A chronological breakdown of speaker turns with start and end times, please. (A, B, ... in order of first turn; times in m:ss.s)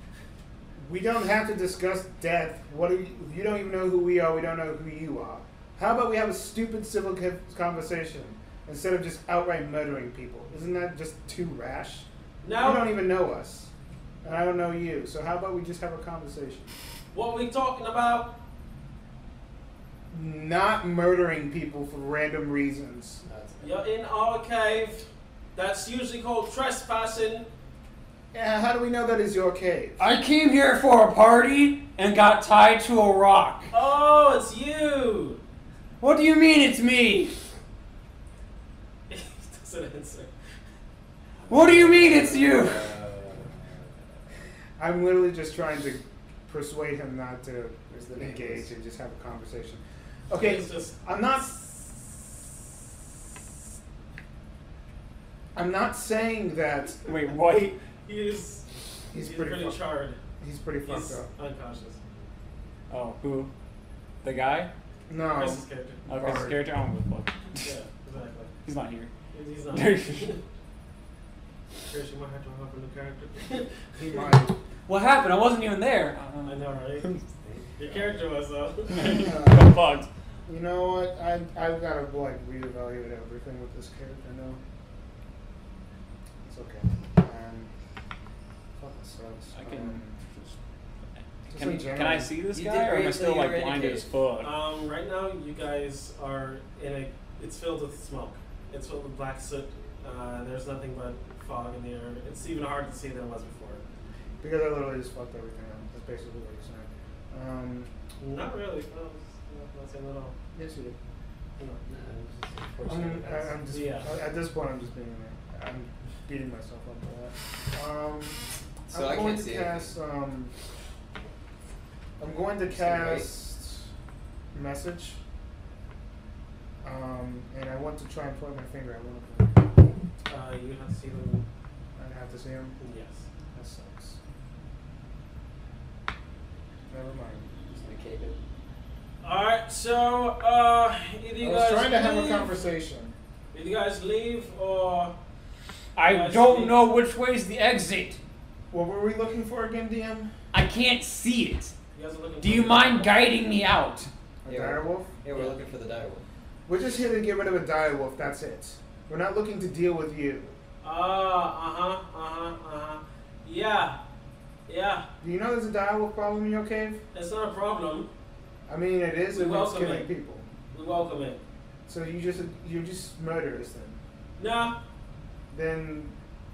0:00.8-0:12.0 A
0:12.4-0:12.9 B
0:12.6-0:13.7 A
0:14.2-0:16.7 A
0:17.1-0:18.4 B
0:20.1-0:23.2 A
0:23.2-0:23.8 C
0:23.6-0:27.4 B
0:28.3-0:30.0 A
0:30.0-0:33.7 D
0:33.7-0:35.4 B
0:36.0-0:37.3 D
0:39.1-0:40.3 B
0:41.4-0:43.8 C
0:41.5-0:42.9 D
0:44.8-0:52.7 A
0:48.1-0:48.7 C
0:50.3-0:50.9 B
0:55.5-0:57.1 A
0:57.0-0:57.8 D
0:57.4-1:00.2 B
0:59.1-0:59.8 A
1:00.4-1:01.3 A
1:00.8-1:02.0 B
1:02.9-1:03.5 D
1:04.2-1:04.7 D
1:05.1-1:06.7 A
1:05.3-1:06.0 B
1:06.1-1:07.7 D
1:07.6-1:08.5 B
1:08.6-1:09.1 D
1:09.3-1:10.4 B
1:09.7-1:10.3 D
1:11.9-1:14.2 B
1:13.9-1:14.5 A
1:14.9-1:17.1 D
1:16.4-1:17.1 B
1:17.2-1:18.3 C
1:17.8-1:19.2 B
1:18.9-1:20.1 D
1:19.0-1:19.8 A
1:20.5-1:24.6 A
1:26.4-1:27.7 A
1:28.8-1:30.2 A
1:29.5-1:30.6 D
1:31.5-1:32.3 A
1:31.5-1:34.5 D
1:32.5-1:34.1 C
1:34.4-1:43.8 B
1:44.4-1:47.9 A
1:48.2-1:50.3 B
1:50.5-1:51.0 A
1:51.8-1:53.6 C
1:52.8-2:00.5 A
1:53.7-1:54.1 B
1:58.9-1:59.9 C
2:02.2-2:03.9 A
2:02.6-2:03.3 C
2:04.5-2:05.2 A
2:06.8-2:09.6 A
2:10.3-2:11.4 B
2:12.0-2:12.7 A
2:12.8-2:13.2 B
2:13.5-2:14.2 A
2:16.9-2:17.5 A
2:17.7-2:18.4 C
2:19.2-2:22.5 B
2:21.4-2:23.1 A
2:23.5-2:25.1 B
2:26.0-2:28.2 D
2:26.0-2:26.8 B
2:28.7-2:30.3 A
2:30.5-2:31.7 D
2:31.9-2:33.1 B
2:32.4-2:34.1 D
2:34.4-2:35.1 A
2:34.4-2:36.2 C
2:36.6-2:40.6 A
2:40.8-2:44.0 B
2:44.7-2:45.1 B
2:45.2-2:47.0 A
2:47.1-2:48.1 B
2:48.7-2:50.4 A
2:49.3-2:50.1 B
2:50.7-2:51.4 B
2:51.9-2:54.0 A
2:54.4-2:54.8 B
2:55.5-2:56.1 A